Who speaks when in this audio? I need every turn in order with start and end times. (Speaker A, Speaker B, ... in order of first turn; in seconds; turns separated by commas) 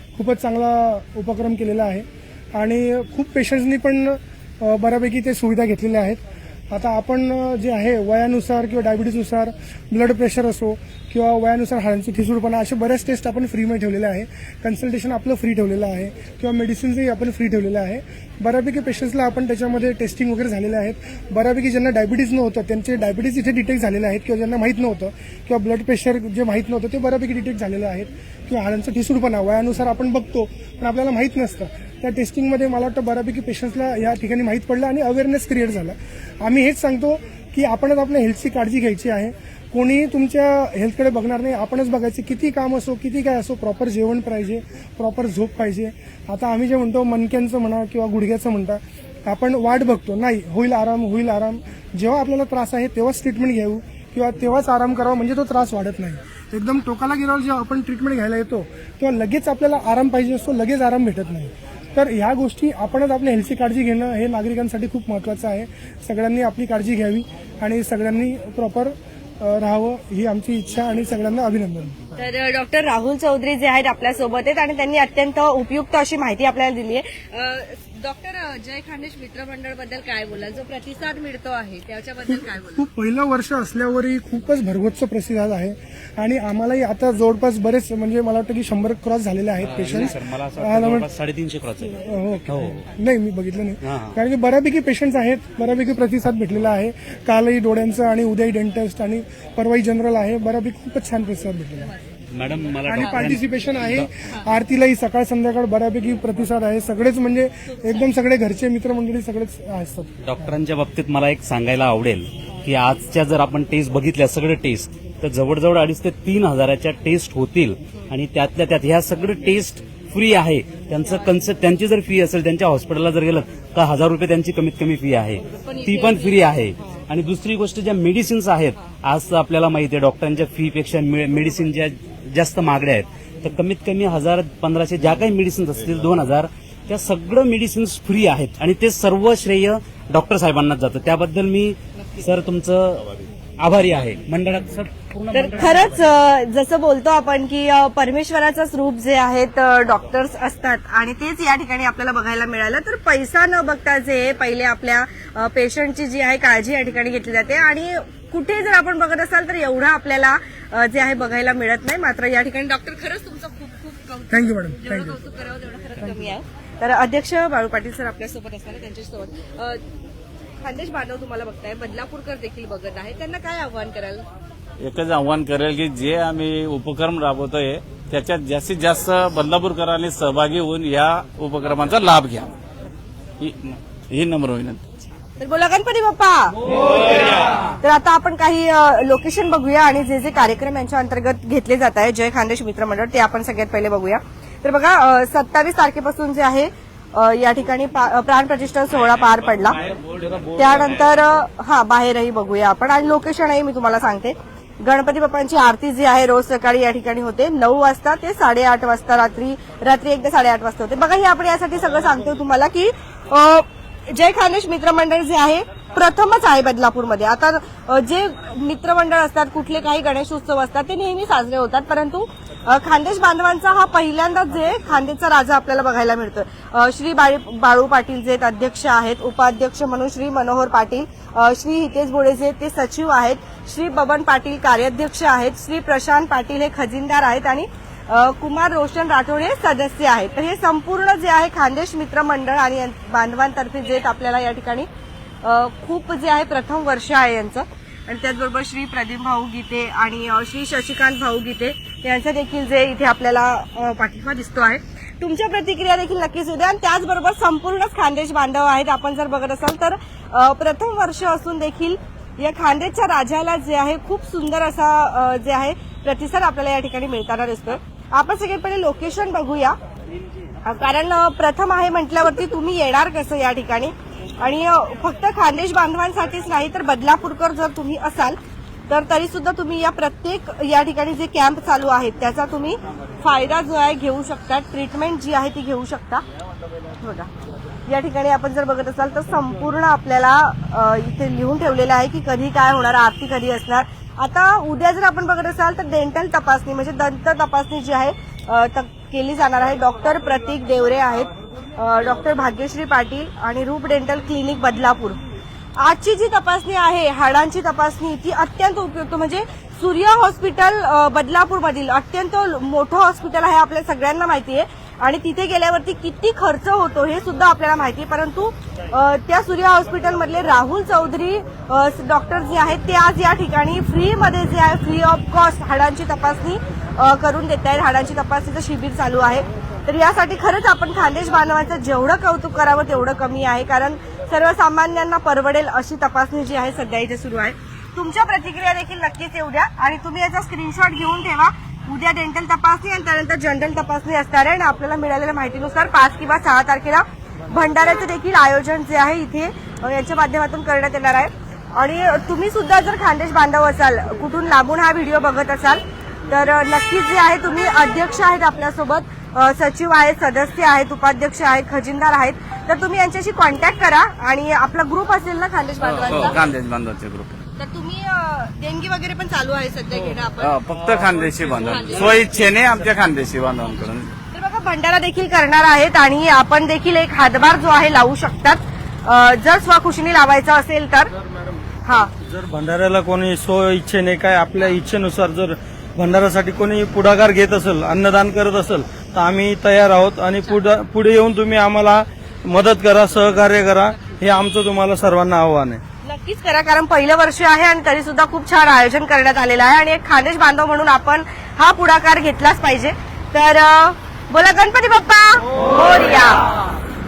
Speaker A: 0.1-72.0, Speaker B: 72.2-82.8, Speaker A: 82.3-91.1, Speaker C: 89.6-92.8, Speaker A: 92.0-101.9, Speaker C: 93.8-94.2, Speaker C: 102.3-104.1, Speaker A: 102.8-110.2, Speaker C: 110.2-146.1, Speaker B: 125.5-127.0, Speaker B: 145.3-169.8, Speaker A: 164.3-165.2, Speaker A: 166.0-166.3, Speaker B: 170.6-174.2, Speaker D: 174.8-182.5, Speaker D: 183.4-184.9, Speaker B: 185.4-199.8, Speaker D: 199.9-200.3, Speaker B: 200.5-244.9, Speaker B: 245.4-269.7, Speaker B: 270.6-278.4, Speaker B: 278.9-286.2, Speaker B: 287.0-287.3, Speaker B: 287.9-305.2, Speaker B: 305.8-366.4, Speaker D: 365.8-367.4, Speaker B: 367.6-370.6, Speaker D: 370.4-374.1, Speaker B: 371.4-372.5, Speaker B: 374.3-381.1, Speaker B: 381.8-382.1, Speaker E: 382.2-395.8, Speaker B: 396.0-406.4